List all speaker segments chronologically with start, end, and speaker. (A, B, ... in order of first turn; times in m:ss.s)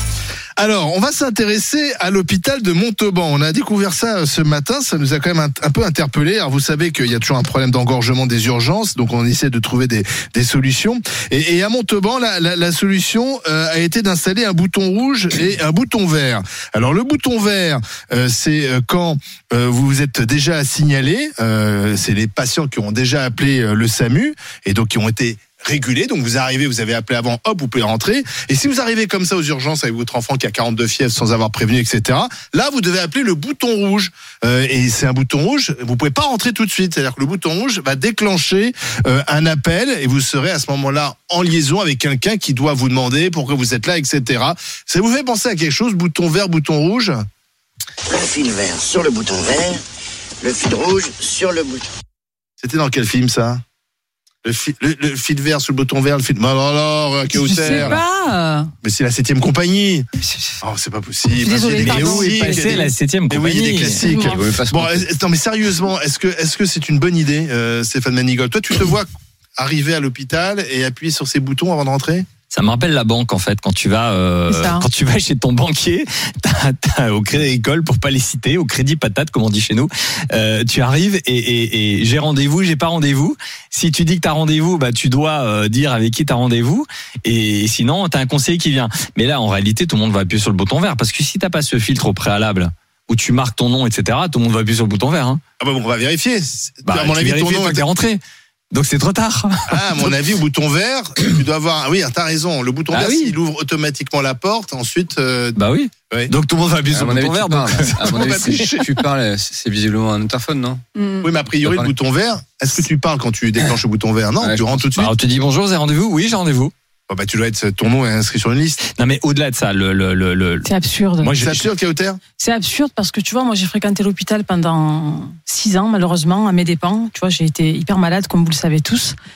0:00.6-0:47.2 A
0:48.1-0:49.8 B
0:50.4-0:51.8 B
0:52.6-0:53.6 A
0:54.4-0:58.0 A
0:57.3-0:58.7 C
0:58.8-1:00.0 A
1:00.6-1:12.2 A
1:01.4-1:02.9 C
1:01.8-1:04.1 D
1:04.0-1:04.4 C
1:04.2-1:05.1 E
1:12.5-1:35.4 D
1:14.5-1:14.8 C
1:35.6-1:37.9 A
1:36.8-1:38.2 D
1:38.7-1:40.1 D
1:39.7-1:45.6 A
1:42.9-1:43.3 D
1:45.6-1:48.8 D
1:46.9-1:50.8 E
1:48.1-1:48.6 A
1:51.0-1:51.3 C
1:51.2-1:55.1 A
1:51.6-1:51.9 D
1:54.4-1:54.8 E
1:55.0-1:56.7 D
1:57.1-1:58.8 A
1:58.9-2:01.7 D
2:00.6-2:01.3 C
2:01.4-2:02.2 A
2:02.4-2:09.1 C